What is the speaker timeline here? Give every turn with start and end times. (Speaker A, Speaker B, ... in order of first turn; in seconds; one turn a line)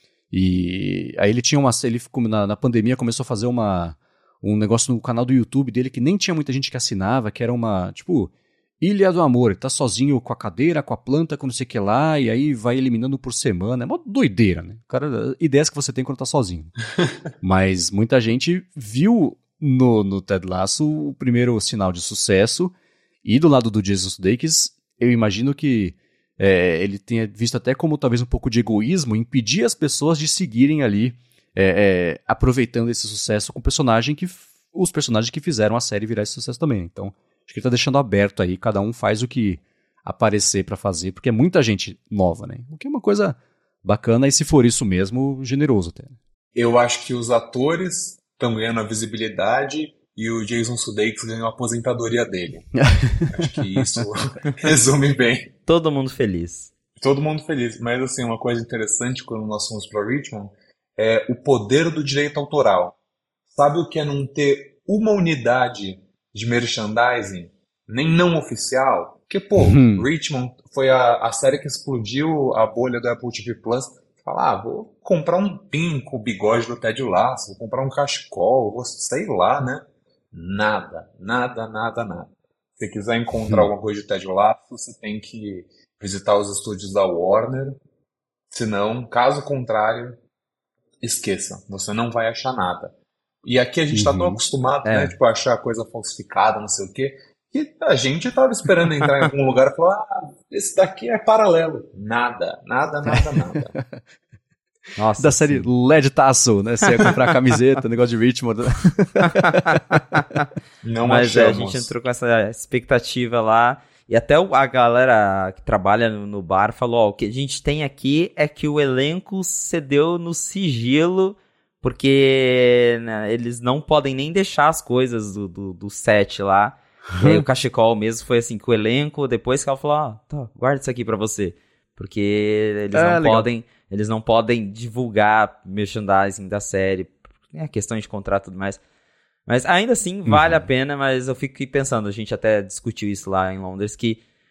Speaker A: 0.3-16.7
Speaker A: 17.4-46.2
Speaker B: 46.5-52.8
Speaker A: 52.8-53.4
Speaker B: 53.3-55.5
Speaker C: 55.7-56.7
Speaker B: 57.0-63.0
Speaker B: 63.5-87.8
Speaker A: 69.6-70.1
Speaker B: 88.5-90.2
Speaker B: 91.0-103.7
Speaker A: 93.9-94.4
Speaker C: 94.8-95.2
Speaker A: 103.1-104.0
Speaker C: 105.0-105.7
Speaker A: 105.2-109.8
Speaker C: 109.2-110.4
Speaker B: 110.8-111.9
Speaker C: 111.0-138.8
Speaker A: 127.2-127.5
Speaker A: 132.9-133.5
Speaker C: 139.5-144.2
Speaker A: 140.3-140.6